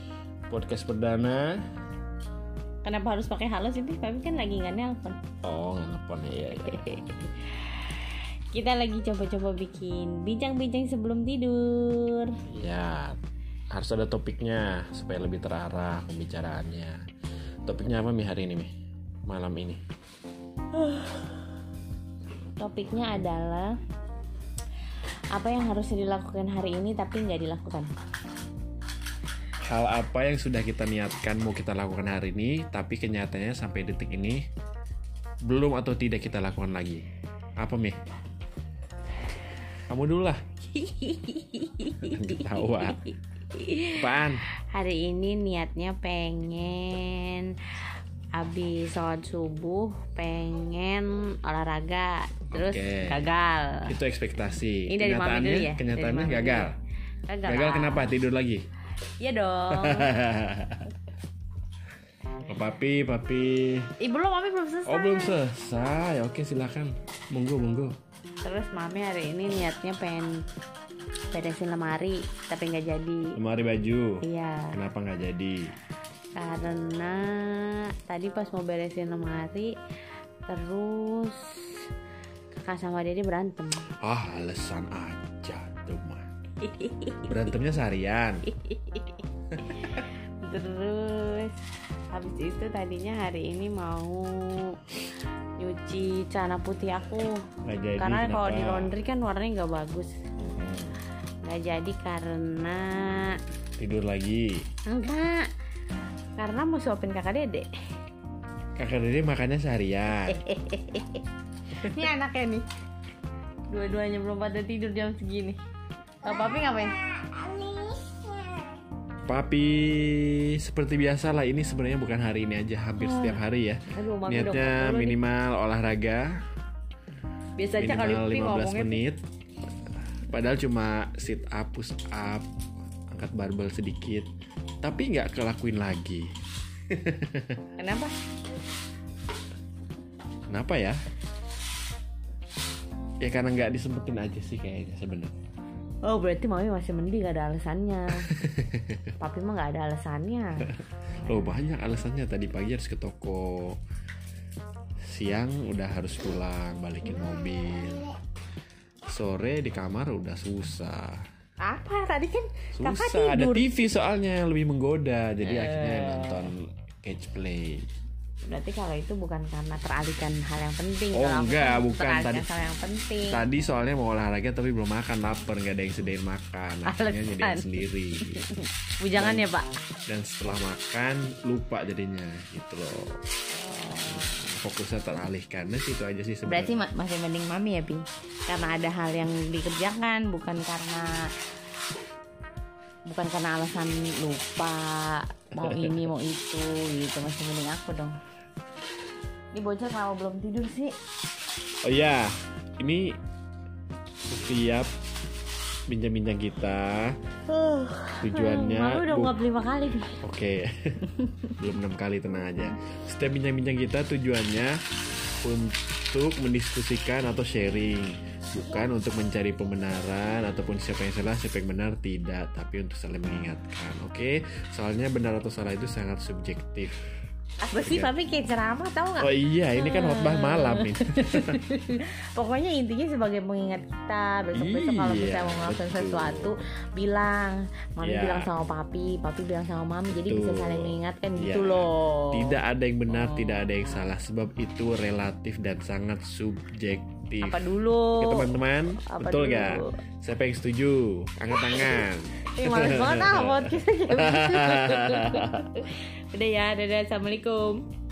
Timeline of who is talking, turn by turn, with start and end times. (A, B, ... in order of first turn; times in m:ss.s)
0:00.5-0:01.6 A
0:02.8-0:05.2 B
0:05.4-0:07.1 A
0:06.6-0:07.7 B
0:08.5-0:12.4 B
0:12.5-0:13.2 A
0:13.7-0:17.0 A
0:17.7-0:18.7 A
0:19.3-0:19.8 A
0:22.6-0:23.8 B
0:25.3-0:27.9 B
0:29.6-0:34.4 A
0:35.4-0:37.0 A
0:37.6-0:38.0 A
0:39.9-0:40.4 A
0:40.7-0:47.6 B
0:42.0-0:43.0 A
0:43.9-0:44.4 A
0:48.4-0:53.9 B
0:52.5-0:53.3 A
0:53.9-0:56.8 A
0:54.9-0:56.7 B
0:57.3-0:58.1 B
0:57.5-0:58.6 A
0:59.2-1:00.1 B
0:59.7-1:00.9 A
1:02.5-1:03.9 A
1:04.0-1:05.4 B
1:04.9-1:08.0 A
1:08.4-1:10.3 B
1:11.3-1:13.4 B
1:13.4-1:15.7 A
1:14.2-1:14.8 B
1:16.4-1:19.7 B
1:20.5-1:21.8 B
1:22.5-1:23.9 B
1:24.0-1:26.2 A
1:26.6-1:27.4 B
1:27.2-1:28.5 A
1:28.6-1:31.6 B
1:32.1-1:34.8 B
1:35.6-1:37.4 B
1:37.7-1:39.0 A
1:38.0-1:40.2 B
1:40.4-1:41.0 A
1:41.4-1:43.4 B
1:43.8-1:44.6 A
1:44.9-1:45.5 B
1:46.4-1:47.7 B
1:48.8-1:50.4 A
1:50.3-1:51.2 B
1:51.8-1:52.6 B
1:53.7-1:55.6 B
1:56.2-1:57.0 B
1:57.5-1:58.2 B
1:59.3-2:06.4 A
2:03.0-2:05.2 B
2:07.6-2:09.0 B
2:07.8-2:09.2 A
2:10.2-2:12.5 A
2:13.1-2:14.3 A
2:14.8-2:16.3 A
2:16.9-2:17.6 A
2:17.8-2:18.1 B
2:20.5-2:21.0 A
2:23.2-2:25.4 A
2:26.0-2:28.3 B
2:28.3-2:29.0 A
2:29.2-2:30.8 B
2:31.2-2:33.8 A
2:35.0-2:38.1 A
2:39.1-2:41.2 A
2:41.6-2:43.7 B
2:42.8-2:47.9 A
2:45.4-2:46.5 B
2:48.4-2:53.4 B
2:51.1-2:52.4 A
2:53.3-2:58.4 A
2:56.9-2:59.7 B
2:59.2-2:59.5 A
3:00.1-3:03.2 A
3:03.6-3:04.4 B
3:04.1-3:06.8 A
3:06.5-3:11.2 B
3:13.1-3:18.2 B
3:15.7-3:16.0 A
3:19.5-3:21.0 B
3:21.8-3:23.2 A
3:24.3-3:24.9 A
3:25.9-3:27.2 A
3:27.5-3:30.2 B
3:28.2-3:29.4 A
3:30.2-3:34.8 A
3:35.4-3:47.0 A
3:47.7-4:02.6 B
3:47.8-3:48.1 A
3:49.2-3:51.6 A
3:54.5-3:56.6 A
3:58.0-3:58.5 A
4:00.1-4:15.7 A
4:03.1-4:04.0 B
4:07.4-4:10.0 B
4:11.6-4:17.9 B